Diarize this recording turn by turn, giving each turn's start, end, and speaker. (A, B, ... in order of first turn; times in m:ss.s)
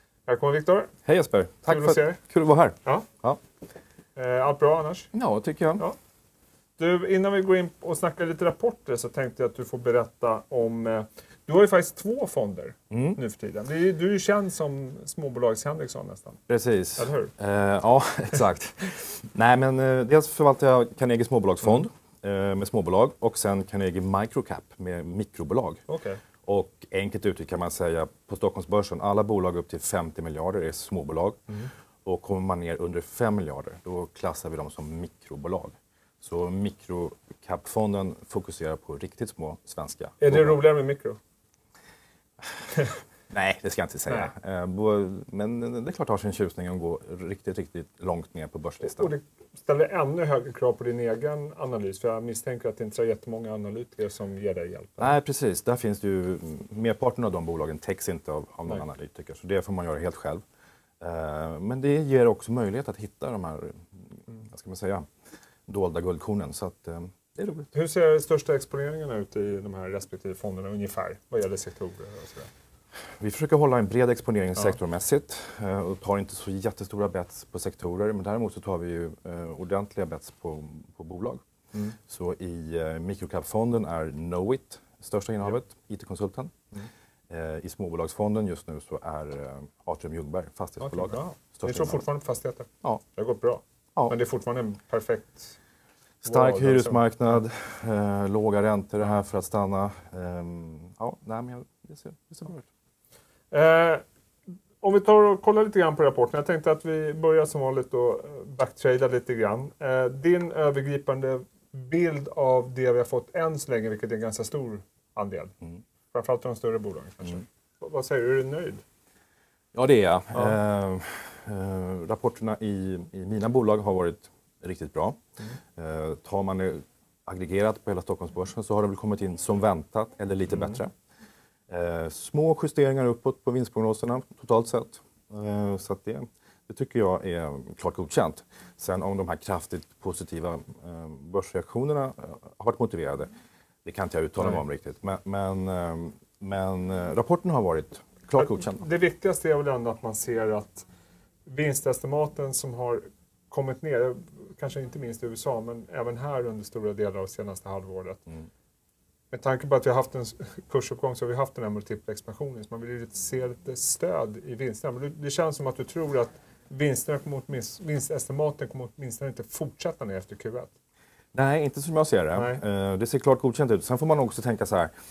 0:00.3-0:00.9 A
0:01.0-0:03.4 B
0:01.6-0:02.2 A
0:04.2-0:05.1 A
0:05.1-0:05.8 B
0:06.8-0:16.4 A
0:12.9-0:13.2 B
0:16.5-0:25.8 B
0:17.0-0:17.3 A
0:25.9-0:26.2 A
0:26.4-0:31.4 B
0:32.0-0:40.6 B
0:40.2-0:41.2 A
0:43.3-0:49.1 B
0:48.8-0:55.1 A
0:55.0-1:00.4 B
1:01.0-1:05.1 B
1:05.7-1:07.7 B
1:07.7-1:12.5 A
1:13.1-1:21.4 B
1:22.0-1:26.5 B
1:27.3-1:32.0 B
1:30.8-1:35.6 A
1:36.2-1:42.7 B
1:36.2-1:37.0 A
1:43.5-1:44.0 A
1:44.8-1:55.5 A
1:56.1-1:58.8 A
1:59.7-2:05.2 B
2:05.8-2:10.9 B
2:11.7-2:23.3 B
2:23.8-2:28.8 B
2:28.4-2:30.8 A
2:31.4-2:38.2 A
2:39.3-2:50.7 A
2:51.3-2:54.9 B
2:52.3-2:52.6 A